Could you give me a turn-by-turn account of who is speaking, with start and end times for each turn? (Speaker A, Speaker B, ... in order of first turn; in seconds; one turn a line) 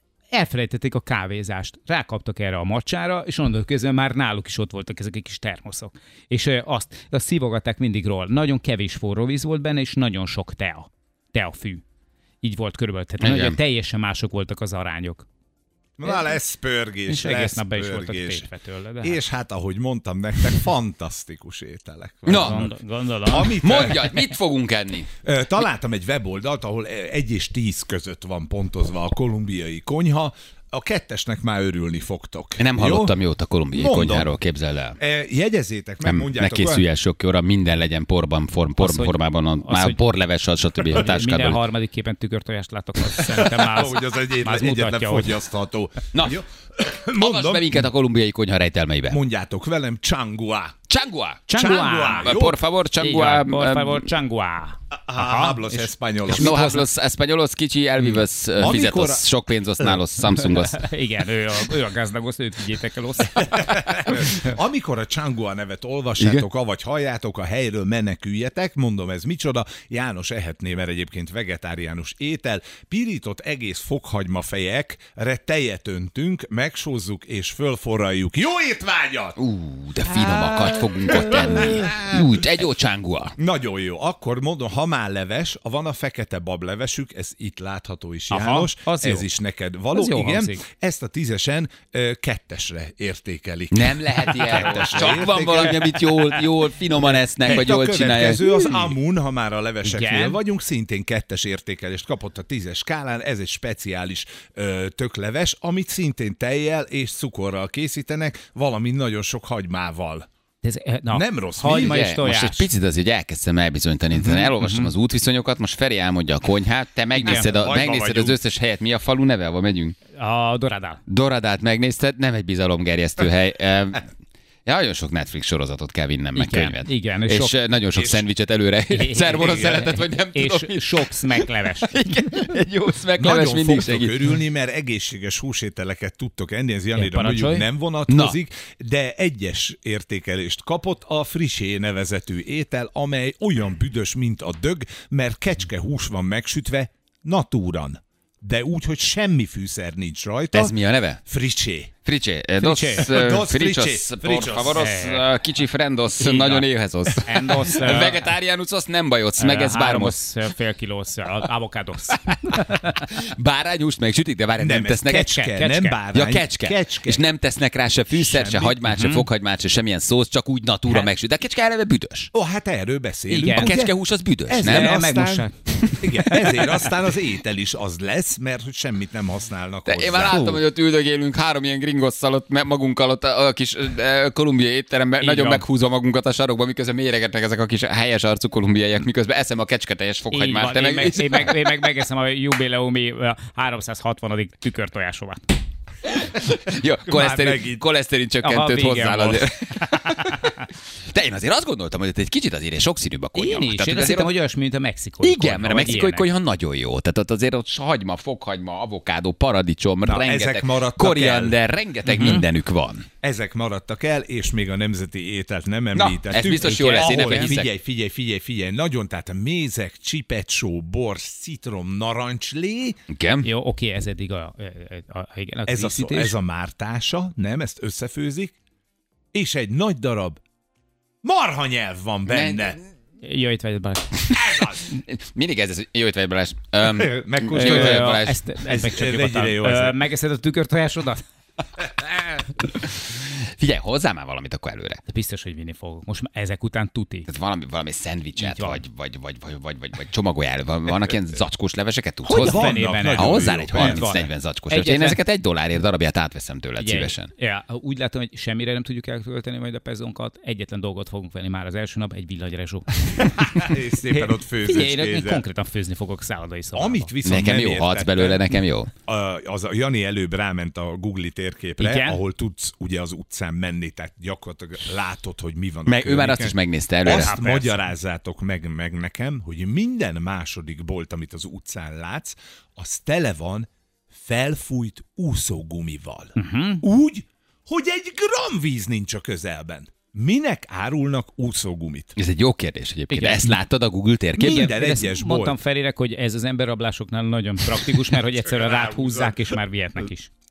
Speaker A: 0.3-11.8
Speaker A: 12.4-15.2
Speaker B: 13.2-13.6
Speaker C: 16.0-18.5
Speaker A: 17.1-19.2
Speaker C: 19.0-22.7
Speaker B: 22.3-22.7
Speaker A: 22.3-24.1
Speaker C: 23.2-24.1
Speaker B: 23.4-25.1
Speaker C: 25.2-33.1
Speaker B: 32.6-35.0
Speaker C: 33.7-34.3
Speaker C: 35.0-36.8
Speaker B: 36.0-41.6
Speaker A: 38.8-40.0
Speaker A: 40.9-45.4
Speaker C: 43.1-47.8
Speaker B: 46.1-46.4
Speaker B: 47.2-49.2
Speaker C: 49.1-50.7
Speaker B: 50.9-51.4
Speaker A: 51.5-52.3
Speaker C: 51.5-52.6
Speaker B: 52.1-54.0
Speaker A: 53.0-56.8
Speaker C: 54.9-56.6
Speaker B: 56.3-60.8
Speaker C: 58.6-59.2
Speaker A: 60.4-64.3
Speaker C: 63.3-79.4
Speaker B: 66.2-66.4
Speaker B: 79.4-83.3
Speaker C: 80.0-82.3
Speaker C: 83.4-95.9
Speaker A: 88.3-89.3
Speaker A: 89.9-90.6
Speaker B: 93.7-98.4
Speaker C: 97.4-110.3
Speaker A: 99.8-100.4
Speaker A: 110.6-112.7
Speaker C: 111.1-112.1
Speaker B: 111.8-120.0
Speaker A: 114.1-114.9
Speaker A: 117.2-117.5
Speaker C: 117.2-118.4
Speaker A: 120.2-121.0
Speaker B: 121.1-124.1
Speaker B: 124.7-134.1
Speaker A: 126.3-127.6
Speaker C: 127.9-128.2
Speaker A: 128.9-132.0
Speaker C: 133.2-151.9
Speaker A: 136.9-137.7
Speaker B: 138.1-138.4
Speaker B: 150.5-151.2
Speaker B: 152.0-160.2
Speaker A: 152.6-153.2
Speaker C: 153.0-154.8
Speaker A: 154.7-155.3
Speaker A: 156.2-156.7
Speaker A: 157.2-158.3
Speaker A: 159.4-163.0
Speaker B: 162.5-165.3
Speaker C: 164.6-167.2
Speaker A: 165.2-166.0
Speaker B: 166.1-172.3
Speaker C: 168.1-168.8
Speaker A: 168.9-169.3
Speaker C: 172.3-173.9
Speaker A: 173.3-173.8
Speaker B: 173.5-174.9
Speaker C: 174.5-175.5
Speaker A: 174.6-175.5
Speaker C: 176.0-180.6
Speaker B: 179.9-191.6
Speaker A: 185.2-185.6
Speaker A: 190.3-195.4
Speaker B: 196.0-204.3
Speaker C: 197.1-197.8
Speaker A: 198.4-200.4
Speaker A: 203.3-206.2
Speaker B: 205.2-213.1
Speaker C: 210.0-211.6
Speaker A: 212.1-212.4
Speaker C: 213.2-223.0
Speaker B: 215.9-217.7
Speaker A: 216.6-217.6
Speaker B: 223.1-223.5
Speaker A: 223.4-226.3
Speaker C: 225.7-228.5
Speaker C: 229.3-230.4
Speaker C: 231.2-232.8
Speaker B: 232.3-232.8
Speaker A: 233.2-234.4
Speaker C: 234.3-234.8
Speaker B: 234.3-238.4
Speaker C: 236.8-240.0
Speaker A: 237.5-241.2
Speaker B: 242.6-245.0
Speaker A: 245.1-247.3
Speaker B: 247.3-257.3
Speaker A: 248.4-248.8
Speaker C: 252.3-254.0
Speaker A: 252.3-255.2
Speaker A: 256.8-267.1
Speaker C: 263.4-265.4
Speaker C: 266.7-268.5
Speaker B: 267.2-268.9
Speaker C: 269.1-292.2
Speaker A: 271.8-272.2
Speaker B: 275.9-277.4
Speaker A: 277.1-277.8
Speaker A: 286.4-286.8
Speaker B: 292.2-294.7
Speaker A: 293.1-293.6
Speaker C: 294.4-295.6
Speaker A: 294.4-300.3
Speaker C: 298.4-299.4